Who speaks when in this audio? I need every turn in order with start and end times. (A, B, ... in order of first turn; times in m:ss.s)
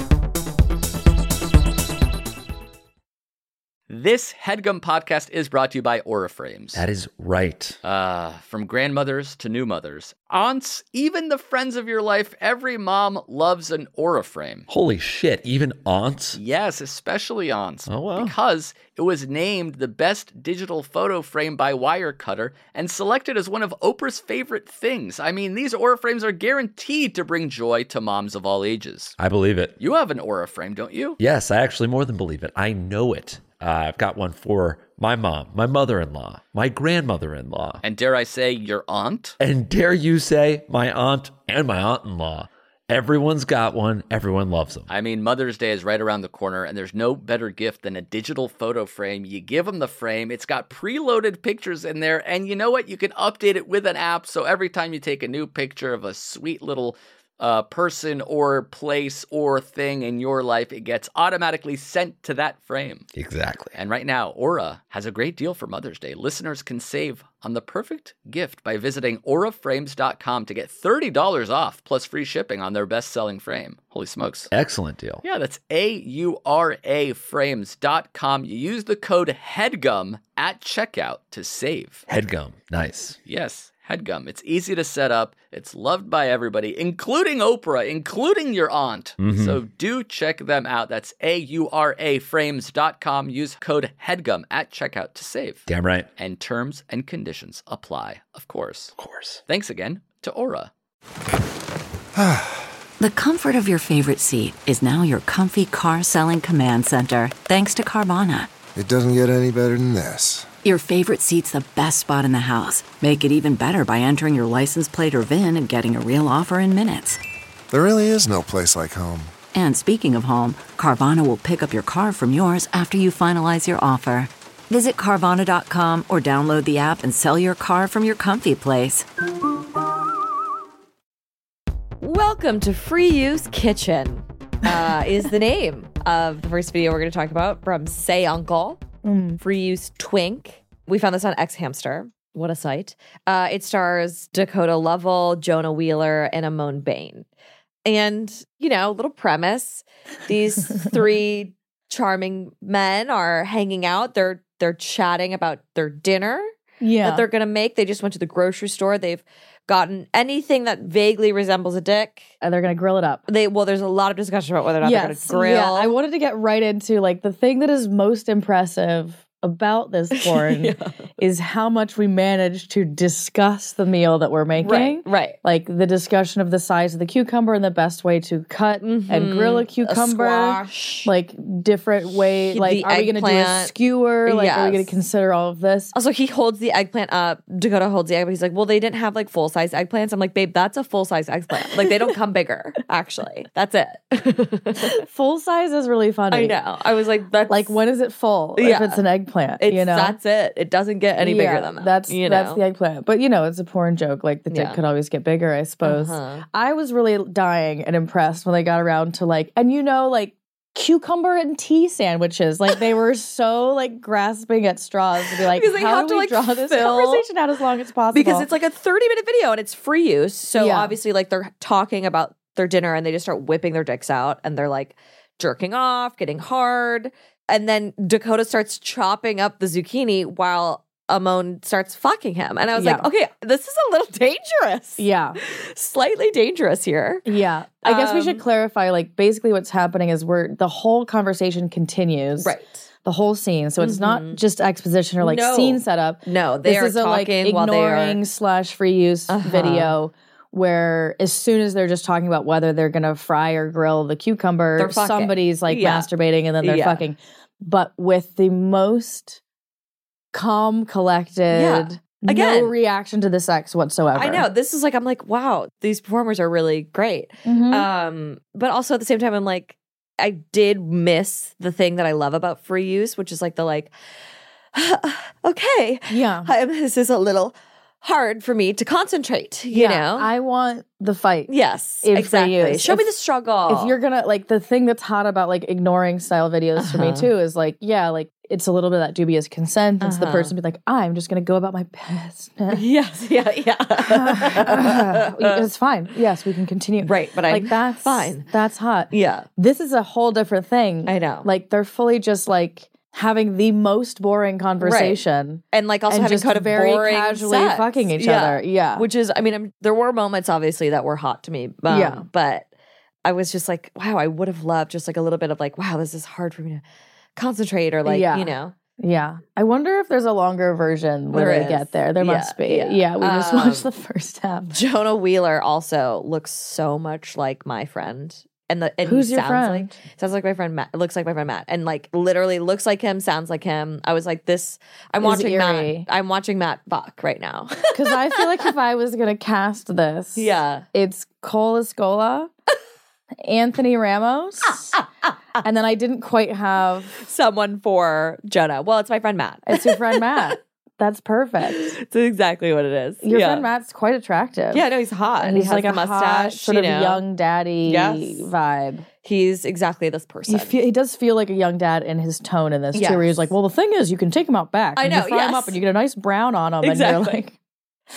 0:03.9-0:06.8 A
0:06.7-0:07.8 B
0:07.8-0:14.7 A
0:14.7-0:16.4 B
0:16.4-0:29.2 A
0:17.9-0:18.4 B
0:29.2-0:29.8 B
0:29.8-0:31.2 A
0:31.2-0:37.8 B
0:37.8-0:39.4 A
0:39.4-0:44.9 B
0:44.9-1:03.1 A
1:03.1-1:03.8 B
1:03.8-1:14.5 A
1:14.5-1:15.2 B
1:15.2-1:22.0 A
1:22.1-1:23.2 B
1:23.2-1:35.6 A
1:29.2-1:29.6 B
1:35.7-1:36.1 B
1:36.2-1:38.9 A
1:39.0-1:39.4 B
1:39.5-1:40.7 A
1:42.2-1:42.6 C
1:43.0-1:48.5 D
1:48.8-1:50.5 C
1:50.6-1:57.2 D
1:57.7-1:59.4 C
1:59.5-2:09.1 D
2:12.0-2:18.8 E
2:19.0-2:19.4 F
2:19.4-2:27.3 E
2:27.8-2:36.5 E
2:36.8-2:37.3 F
2:37.0-2:42.3 E
2:42.4-2:43.2 F
2:43.3-2:46.0 E
2:44.8-3:05.9 F
2:50.1-2:51.0 E
2:54.6-2:55.4 E
2:58.8-3:01.1 E
3:02.0-3:03.7 E
3:04.3-3:05.0 E
3:05.9-3:15.0 E
3:14.8-3:16.6 F
3:16.3-3:17.8 E
3:17.5-3:20.2 F
3:18.6-3:19.0 E
3:19.6-3:22.6 E
3:21.2-3:38.5 F
3:24.5-3:24.8 E
3:25.8-3:26.4 E
3:35.3-3:37.3 E
3:38.1-3:57.3 E
3:40.6-3:41.0 F
3:52.7-3:53.1 F
3:55.0-3:55.4 F
3:57.3-4:19.4 F
3:57.8-3:58.4 E
4:02.4-4:02.9 E
4:03.8-4:04.4 E
4:05.2-4:08.2 E
4:09.3-4:10.0 E
4:14.8-4:16.1 E
4:16.6-4:17.1 E
4:20.3-4:24.5 F
4:21.5-4:22.8 E
4:24.1-4:33.9 E
4:27.4-4:27.9 F
4:34.7-4:40.3 E
4:36.1-4:36.5 F
4:39.7-4:41.5 F
4:41.5-4:44.0 E
4:42.0-4:43.1 F
4:43.7-4:52.8 F
4:46.8-4:47.3 E
4:50.0-4:50.5 E
4:52.7-4:55.6 E
4:54.0-5:09.1 F
4:57.0-4:58.5 E
4:59.1-4:59.5 E
5:01.1-5:01.5 E
5:04.8-5:12.7 E
5:11.9-5:12.3 F
5:13.2-5:16.8 E
5:17.4-5:18.8 E
5:18.0-5:24.8 F
5:21.3-5:23.9 E
5:24.7-5:38.5 E
5:29.0-5:30.0 F
5:35.2-5:36.1 F
5:37.9-5:42.5 F
5:40.4-5:40.9 E
5:43.4-5:45.0 F
5:44.7-5:45.3 E
5:45.6-5:47.2 F
5:47.2-5:50.6 E
5:49.7-5:52.0 F
5:51.6-5:53.7 E
5:53.2-5:54.8 F
5:54.7-5:57.2 E
5:55.4-5:59.0 F
5:57.8-5:58.5 E
5:59.2-6:00.8 E
6:00.5-6:07.6 F
6:02.9-6:03.5 E
6:05.0-6:05.8 E
6:06.8-6:07.4 E